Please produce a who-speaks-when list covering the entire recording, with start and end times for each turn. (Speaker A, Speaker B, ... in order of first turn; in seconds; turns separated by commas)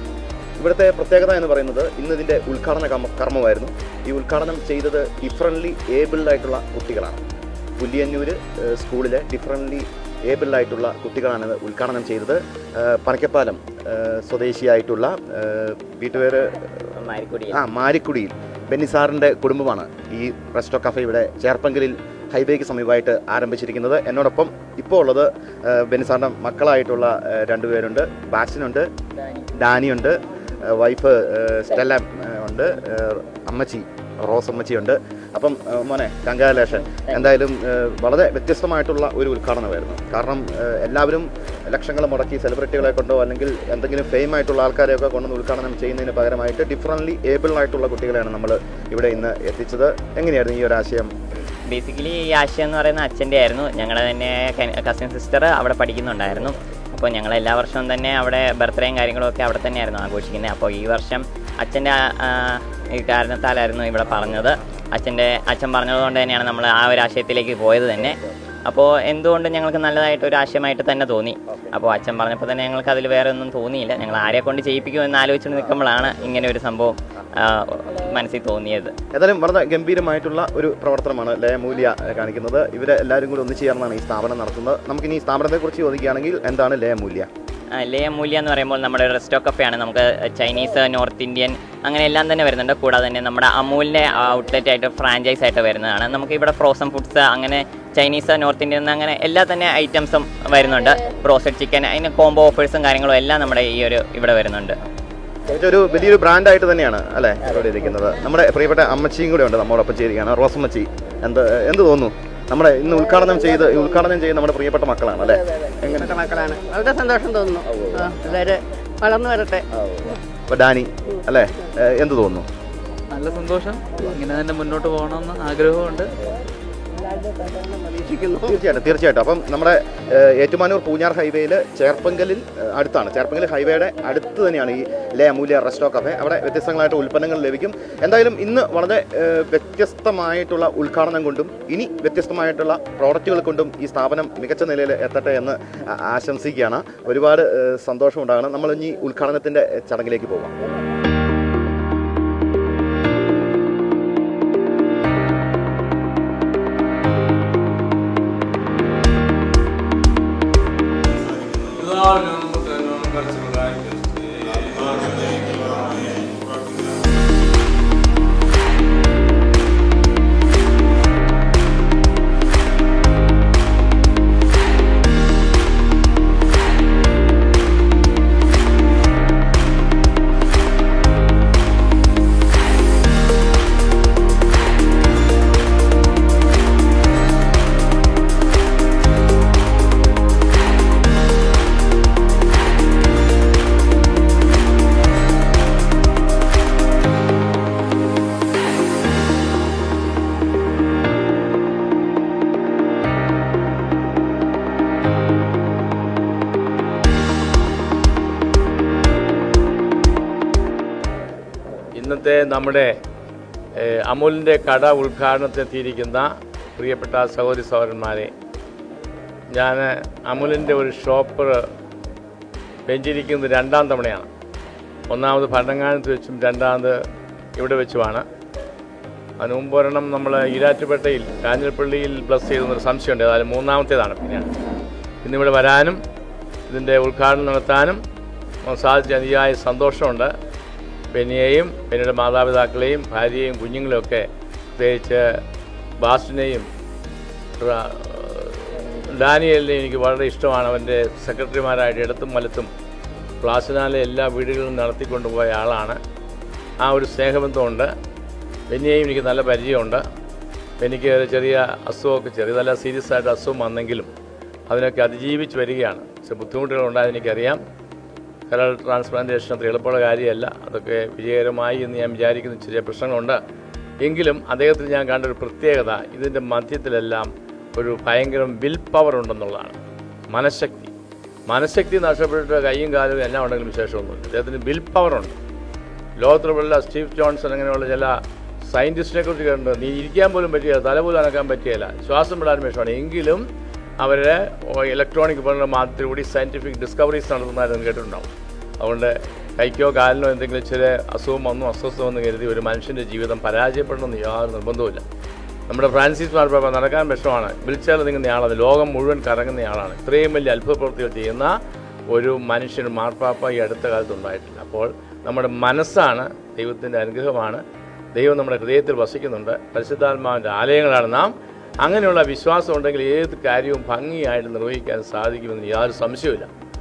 Speaker A: 0.6-7.2, Speaker A: 7.8-16.8, Speaker B: 17.0-17.6, Speaker A: 17.5-28.9, Speaker A: 29.6-51.1, Speaker B: 51.7-79.0, Speaker A: 79.1-87.3, Speaker B: 87.7-104.8, Speaker A: 105.5-116.2, Speaker C: 116.1-119.6, Speaker A: 120.5-122.5, Speaker D: 123.1-126.1, Speaker C: 127.6-128.5, Speaker A: 128.4-150.5, Speaker E: 161.5-165.6, Speaker E: 211.9-212.9, Speaker E: 213.8-218.3, Speaker E: 219.5-221.6, Speaker E: 222.9-224.3, Speaker E: 225.1-227.0, Speaker E: 227.6-228.2, Speaker E: 229.4-234.5, Speaker E: 235.2-236.0, Speaker E: 236.7-238.0, Speaker E: 238.7-240.3, Speaker E: 241.1-244.3, Speaker E: 244.8-245.2, Speaker E: 246.0-246.7, Speaker E: 247.6-252.7, Speaker E: 253.4-256.0, Speaker E: 256.8-257.9, Speaker E: 258.7-260.0, Speaker E: 260.8-264.1, Speaker E: 264.7-267.6, Speaker E: 268.5-273.4, Speaker E: 274.0-279.8, Speaker E: 280.3-280.9, Speaker E: 281.5-285.4, Speaker E: 286.2-293.4, Speaker E: 294.0-298.3, Speaker E: 298.8-305.0, Speaker E: 305.7-311.5, Speaker E: 312.1-317.6, Speaker E: 318.1-326.5